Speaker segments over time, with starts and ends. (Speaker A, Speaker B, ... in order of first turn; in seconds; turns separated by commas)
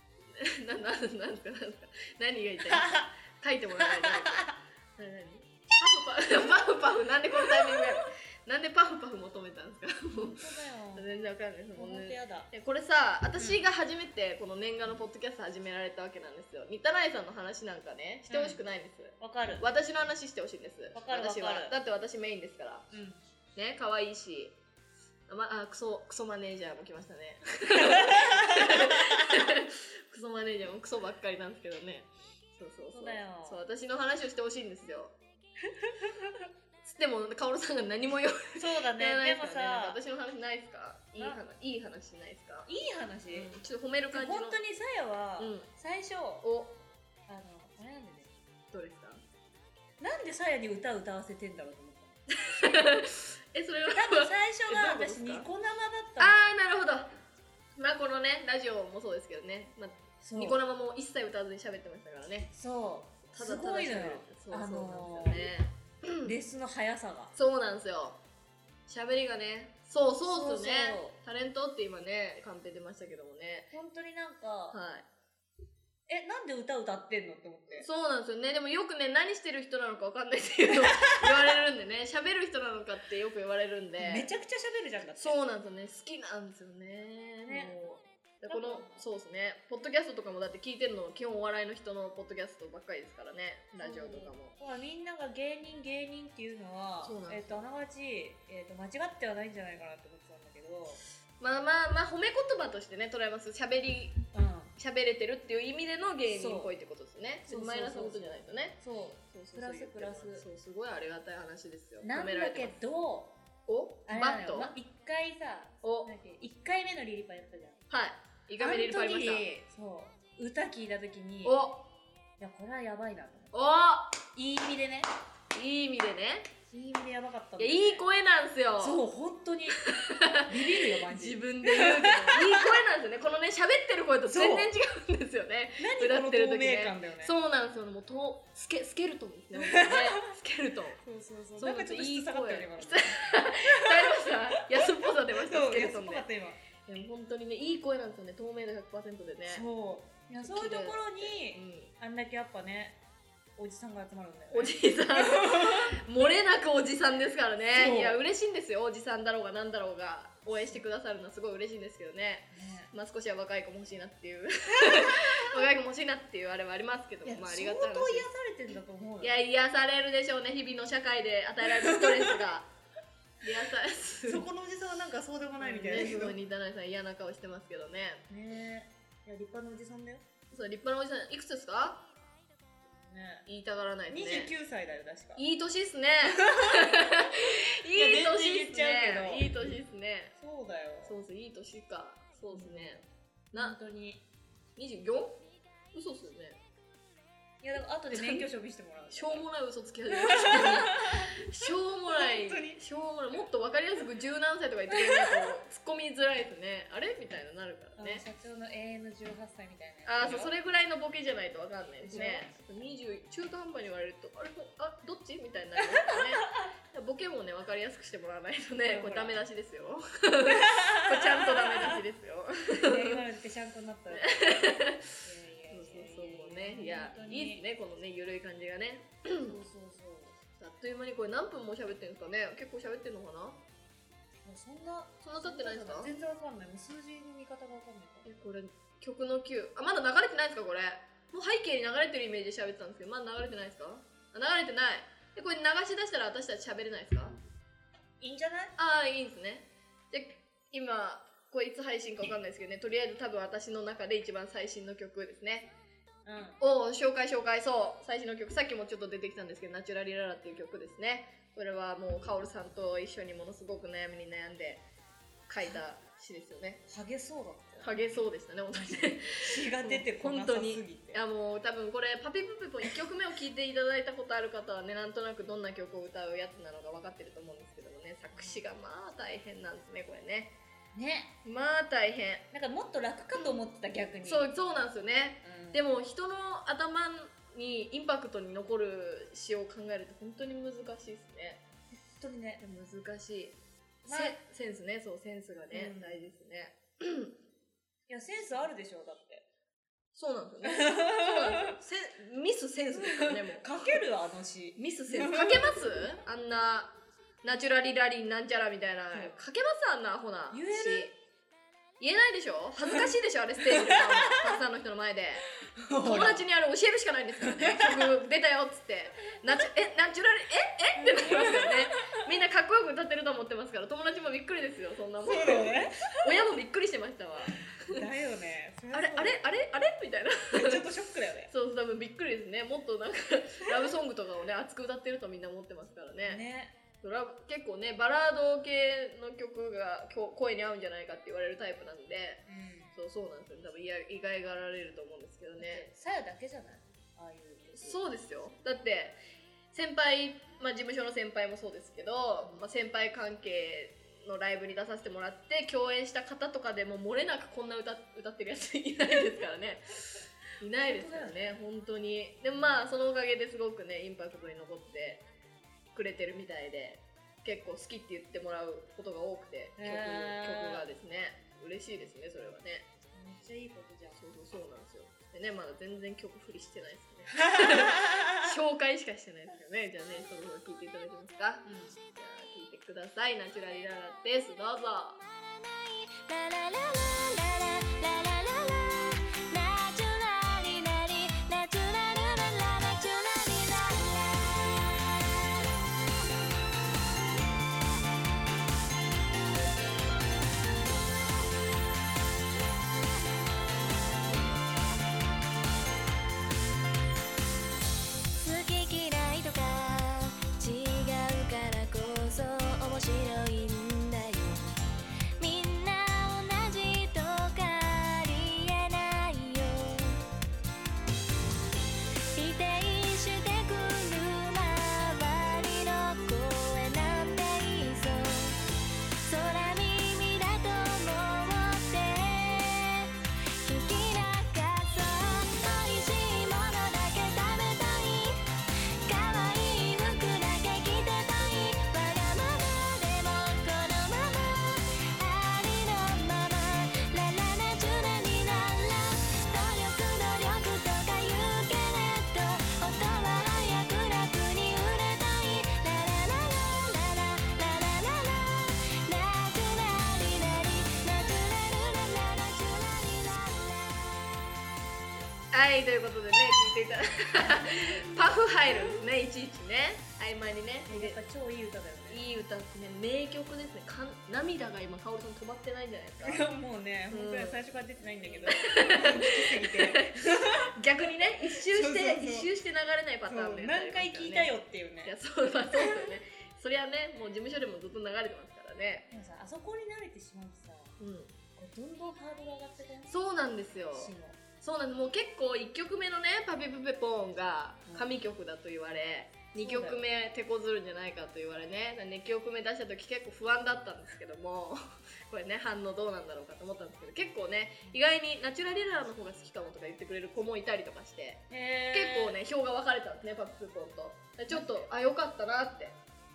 Speaker A: 0.3-22.9, Speaker B: 2.7-3.0, Speaker B: 4.0-4.4, Speaker B: 10.1-11.1, Speaker B: 11.7-12.5, Speaker B: 13.4-13.6, Speaker B: 18.3-18.6, Speaker B: 19.2-19.7, Speaker B: 20.9-21.7, Speaker B: 22.9-23.2, Speaker A: 23.6-24.5, Speaker A: 25.3-35.1, Speaker B: 27.8-29.4, Speaker B: 32.9-33.6, Speaker B: 36.0-36.3, Speaker A: 36.8-42.7, Speaker B: 38.6-40.0, Speaker B: 42.7-43.5, Speaker A: 43.3-44.6, Speaker B: 44.1-46.4, Speaker A: 45.4-45.7, Speaker A: 46.4-46.8, Speaker B: 47.3-48.3, Speaker A: 48.7-49.2, Speaker B: 50.0-52.9, Speaker A: 52.4-55.5, Speaker B: 53.9-56.5, Speaker A: 56.2-57.1, Speaker A: 57.8-62.5, Speaker B: 60.2-60.6, Speaker B: 62.5-65.5, Speaker A: 63.3-66.3, Speaker B: 66.2-67.3, Speaker A: 67.3-68.2, Speaker A: 68.9-73.7, Speaker B: 70.2-71.2, Speaker B: 73.7-74.8, Speaker A: 74.7-75.0, Speaker B: 76.1-77.9, Speaker A: 77.7-84.3, Speaker B: 80.7-81.5, Speaker B: 84.0-85.4, Speaker A: 85.1-94.5, Speaker B: 87.5-87.8, Speaker B: 88.4-89.0, Speaker B: 93.8-101.0, Speaker A: 97.0-97.6, Speaker A: 101.4-104.2, Speaker B: 104.3-104.7, Speaker A: 104.8-108.8, Speaker B: 106.2-106.7, Speaker B: 107.5-110.4, Speaker A: 109.3-112.8, Speaker B: 112.0-113.3, Speaker A: 113.7-114.7, Speaker B: 114.1-117.8, Speaker A: 115.8-116.1, Speaker A: 117.9-119.5, Speaker B: 118.6-121.6, Speaker A: 121.4-121.8, Speaker B: 122.4-123.5, Speaker A: 123.5-124.2, Speaker B: 124.3-125.1, Speaker A: 125.5-126.5, Speaker B: 126.7-128.1, Speaker A: 127.6-129.0, Speaker B: 128.8-129.8, Speaker A: 129.8-141.0, Speaker B: 130.4-132.8, Speaker B: 134.3-134.7, Speaker B: 135.8-137.3, Speaker B: 139.6-140.2, Speaker B: 141.0-146.6, Speaker A: 141.6-146.3, Speaker A: 146.8-149.6, Speaker B: 149.5-153.0, Speaker A: 150.4-151.9, Speaker B: 153.6-156.0, Speaker A: 154.5-168.3, Speaker B: 157.7-158.2, Speaker B: 162.5-162.9, Speaker B: 164.7-165.7, Speaker B: 167.2-169.4, Speaker A: 169.2-172.7, Speaker B: 171.8-172.3, Speaker A: 173.4-174.5, Speaker B: 174.2-176.4, Speaker A: 175.6-178.2, Speaker B: 178.3-180.2, Speaker A: 180.5-182.0, Speaker B: 182.9-183.4, Speaker A: 183.4-184.5, Speaker B: 184.1-185.4, Speaker A: 185.3-190.3, Speaker B: 186.3-189.8, Speaker B: 190.3-191.2, Speaker A: 191.0-193.0, Speaker B: 192.5-193.0, Speaker B: 193.5-194.2, Speaker A: 194.8-195.4, Speaker A: 195.9-196.6, Speaker B: 197.6-199.5, Speaker A: 198.1-198.5, Speaker A: 199.1-208.2, Speaker B: 200.1-202.8, Speaker B: 204.9-205.5, Speaker B: 208.0-210.5, Speaker A: 210.0-223.2, Speaker B: 212.0-212.5, Speaker B: 215.9-216.7, Speaker B: 218.8-219.4, Speaker B: 220.6-222.0, Speaker B: 222.8-227.6, Speaker A: 224.1-225.1, Speaker A: 225.7-229.5, Speaker B: 229.4-230.4, Speaker A: 230.6-233.6, Speaker B: 234.4-238.2, Speaker A: 235.2-236.1, Speaker A: 238.2-247.3, Speaker B: 248.2-248.7, Speaker A: 248.8-255.7, Speaker B: 256.2-256.6, Speaker A: 256.6-264.8, Speaker A: 265.5-266.8, Speaker B: 266.9-271.2, Speaker A: 267.8-280.5, Speaker B: 280.9-281.3, Speaker A: 281.4-282.4, Speaker B: 282.5-284.5, Speaker A: 284.2-291.6, Speaker B: 285.4-285.8, Speaker B: 292.1-292.6, Speaker A: 292.6-297.3, Speaker B: 294.1-294.4, Speaker B: 295.7-296.2, Speaker B: 298.1-299.4, Speaker A: 300.1-303.9, Speaker B: 300.6-301.7, Speaker B: 302.9-305.8, Speaker A: 304.8-311.1, Speaker B: 310.5-311.1, Speaker A: 312.0-315.5, Speaker B: 313.7-314.6, Speaker B: 315.8-316.4, Speaker A: 316.0-328.0, Speaker B: 317.4-318.1, Speaker B: 321.0-322.1, Speaker B: 325.2-326.3, Speaker B: 327.8-329.4, Speaker A: 328.9-330.9, Speaker B: 330.5-331.5, Speaker A: 331.5-336.4, Speaker B: 336.2-336.7, Speaker A: 337.0-345.9, Speaker B: 342.5-342.9, Speaker B: 345.6-348.0, Speaker A: 347.7-349.2, Speaker A: 349.7-365.2, Speaker B: 360.7-361.6, Speaker B: 362.6-362.8, Speaker A: 365.9-372.9, Speaker B: 369.8-370.9, Speaker B: 373.1-374.2, Speaker A: 374.1-385.2, Speaker B: 377.4-378.4, Speaker B: 381.6-381.9, Speaker C: 385.3-395.6, Speaker C: 408.3-414.7, Speaker C: 415.4-420.2, Speaker C: 422.3-428.6, Speaker C: 429.1-438.5, Speaker C: 439.0-464.4, Speaker A: 465.5-471.2, Speaker B: 467.4-469.0, Speaker B: 470.9-472.2, Speaker A: 472.1-476.4, Speaker B: 476.2-480.7, Speaker A: 477.1-477.6, Speaker A: 478.2-489.1, Speaker B: 481.5-482.5, Speaker B: 483.2-485.1, Speaker B: 485.7-486.1, Speaker B: 489.1-490.9, Speaker A: 491.0-491.3, Speaker B: 491.5-493.1, Speaker A: 493.1-516.0, Speaker B: 493.8-494.4, Speaker B: 497.9-498.1, Speaker B: 499.6-500.0, Speaker B: 511.5-512.4, Speaker B: 514.5-514.8